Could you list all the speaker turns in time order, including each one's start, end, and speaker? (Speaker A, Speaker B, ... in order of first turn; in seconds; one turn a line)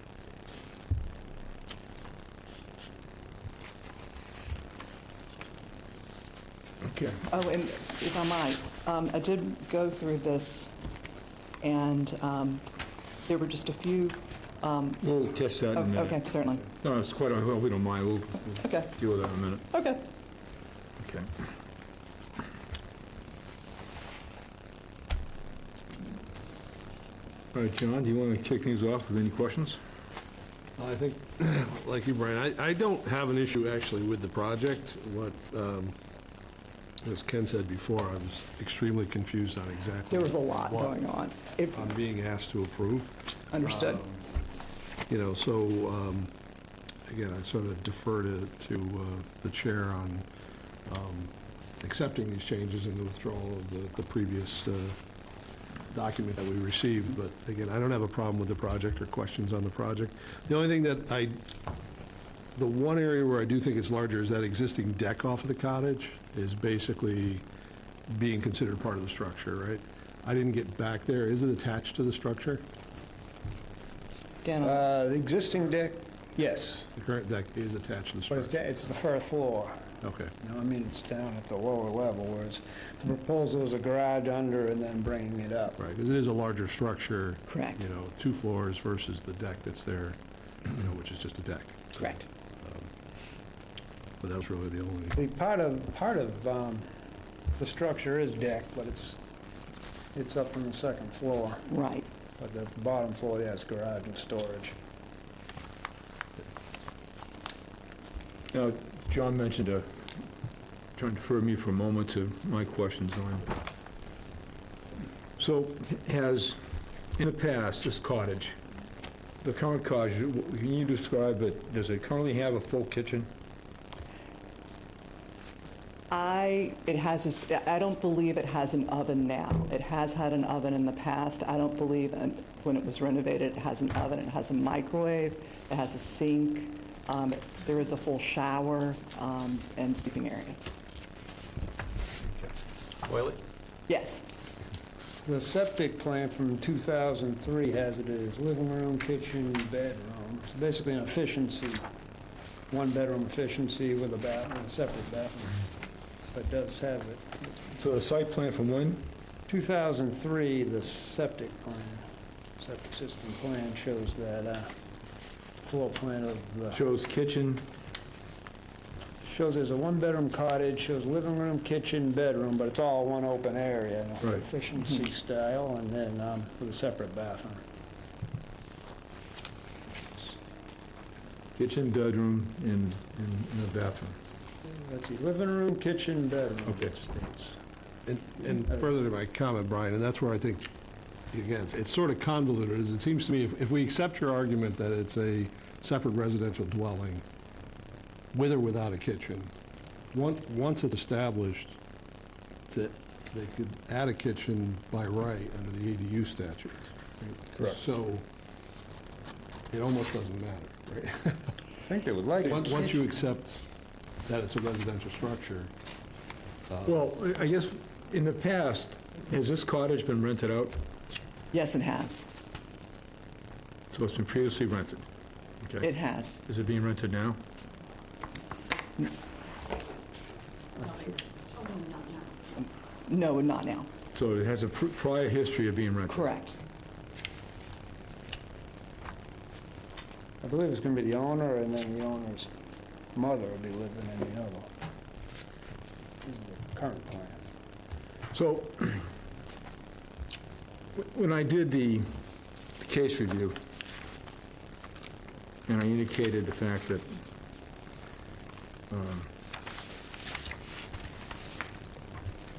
Speaker A: 6.8-7.3
Speaker B: 7.3-10.8
Speaker B: 11.6-12.7
Speaker B: 13.3-15.1
Speaker A: 15.0-19.6
Speaker B: 15.7-16.7
Speaker B: 18.6-18.9
Speaker B: 19.7-20.0
Speaker A: 21.0-21.3
Speaker A: 27.5-29.8
Speaker C: 30.8-36.0
Speaker C: 37.0-41.0
Speaker B: 40.1-41.9
Speaker C: 41.7-44.1
Speaker B: 43.5-44.0
Speaker C: 45.1-46.3
Speaker C: 47.1-50.2
Speaker C: 50.9-55.0
Speaker C: 55.9-61.5
Speaker C: 62.5-67.5
Speaker C: 68.1-72.7
Speaker B: 74.4-74.9
Speaker D: 74.6-76.9
Speaker C: 77.0-78.5
Speaker D: 78.3-85.8
Speaker C: 80.0-80.3
Speaker C: 85.8-92.0
Speaker B: 87.5-87.8
Speaker B: 92.0-92.3
Speaker C: 92.6-92.9
Speaker C: 94.2-95.2
Speaker D: 95.2-96.9
Speaker D: 97.5-99.2
Speaker D: 100.1-101.7
Speaker B: 101.7-102.1
Speaker D: 102.4-104.7
Speaker A: 108.5-110.0
Speaker A: 111.0-113.6
Speaker A: 115.4-116.6
Speaker A: 117.2-118.6
Speaker A: 119.4-123.3
Speaker B: 126.1-140.6
Speaker A: 143.1-143.4
Speaker B: 143.9-144.2
Speaker D: 145.2-151.8
Speaker D: 152.7-155.7
Speaker D: 156.3-157.6
Speaker A: 157.8-159.0
Speaker D: 159.5-162.1
Speaker D: 162.6-164.7
Speaker D: 165.6-166.8
Speaker A: 166.7-167.7
Speaker D: 169.2-177.6
Speaker A: 181.6-184.2
Speaker D: 184.6-187.6
Speaker A: 186.7-186.9
Speaker C: 188.1-190.7
Speaker C: 191.3-197.2
Speaker C: 198.3-199.5
Speaker C: 200.1-201.8
Speaker C: 202.7-206.9
Speaker C: 207.6-208.2
Speaker C: 209.7-211.5
Speaker D: 211.8-213.1
Speaker C: 212.4-213.6
Speaker C: 214.2-215.7
Speaker C: 216.7-217.0
Speaker A: 216.9-220.8
Speaker B: 221.5-222.3
Speaker A: 223.9-225.1
Speaker A: 225.6-225.9
Speaker B: 225.8-226.4
Speaker A: 226.5-227.4
Speaker B: 232.5-233.9
Speaker A: 234.1-236.3
Speaker B: 236.1-236.6
Speaker D: 240.4-242.5
Speaker D: 243.2-244.7
Speaker D: 246.2-247.4
Speaker A: 248.3-249.0
Speaker A: 250.9-252.1
Speaker A: 252.8-253.6
Speaker A: 255.7-257.1
Speaker A: 258.9-259.3